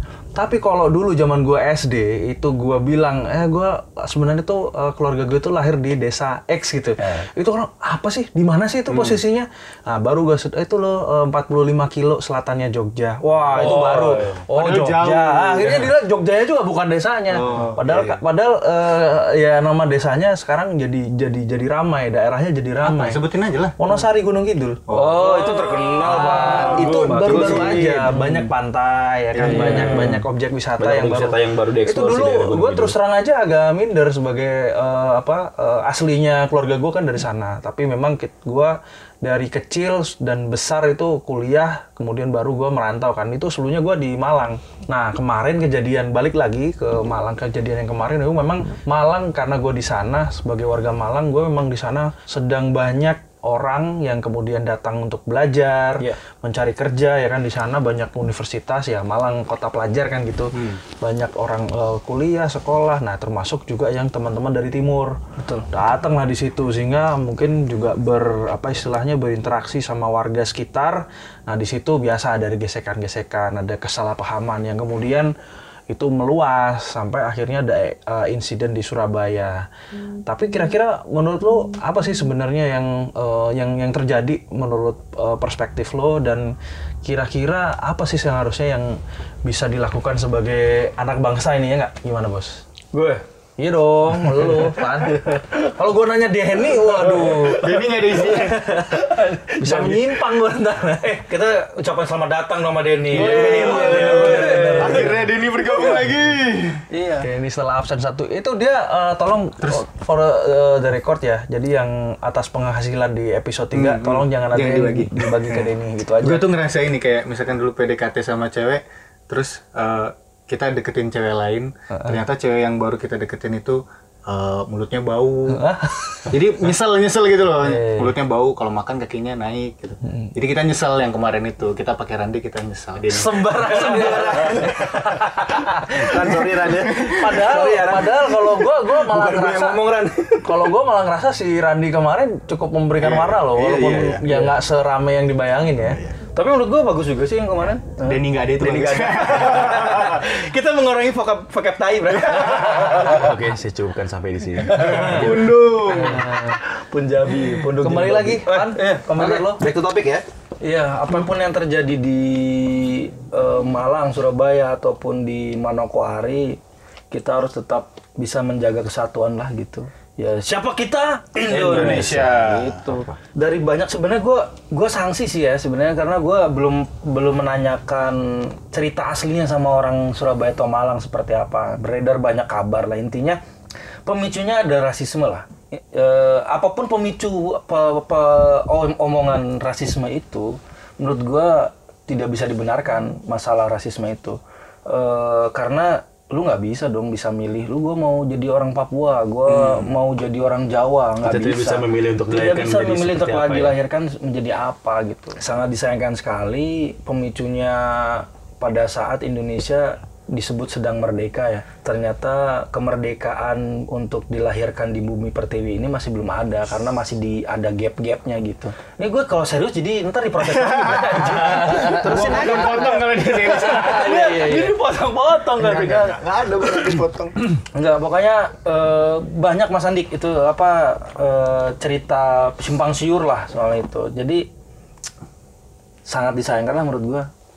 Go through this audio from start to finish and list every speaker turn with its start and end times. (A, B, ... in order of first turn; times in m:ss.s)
0:00.3-0:23.2 A
0:08.9-0:09.2 B
0:13.3-0:14.4 C
0:13.5-0:15.9 B
0:17.3-0:18.2 B
0:22.8-0:23.8 B
0:23.8-1:15.3 A
0:24.9-0:27.9 B
0:24.9-0:28.5 C
0:29.3-0:30.2 B
0:29.4-0:30.2 C
0:30.8-0:32.9 D
1:05.4-1:05.7 C
1:15.9-1:19.6 A
1:20.2-1:32.6 A
1:32.9-1:33.2 C
1:33.6-1:41.2 A
1:37.1-1:38.6 B
1:39.0-1:40.2 C
1:41.0-1:45.2 C
1:43.1-1:46.8 B
1:43.1-1:45.2 A
1:46.9-1:47.3 C
1:47.2-1:56.4 A
1:53.7-2:05.6 B
2:05.6-2:06.3 A
2:06.3-2:14.5 B
2:07.6-2:08.2 A
2:13.0-2:19.9 A
2:13.7-2:15.0 D
2:15.8-2:20.6 D
2:16.8-2:17.1 B
2:20.4-2:26.0 A
2:23.0-2:23.6 B
2:23.5-2:24.2 D
2:24.2-2:24.5 C
2:26.3-2:33.3 C
2:28.0-2:30.2 B
2:32.6-2:35.4 D
2:34.6-2:39.5 C
2:34.8-2:35.2 A
2:34.9-2:36.2 B
2:35.9-2:36.6 A
2:37.8-2:39.6 A
2:39.2-2:40.2 D
2:40.6-2:46.6 C
2:47.1-3:03.4 C
2:51.5-2:52.9 B
2:51.5-2:52.1 D
3:04.0-3:46.2 C
3:21.2-3:23.8 D
3:40.4-3:44.7 B
3:41.6-3:42.9 D
3:45.6-3:47.4 B
3:47.7-3:54.4 C
3:56.0-3:57.3 C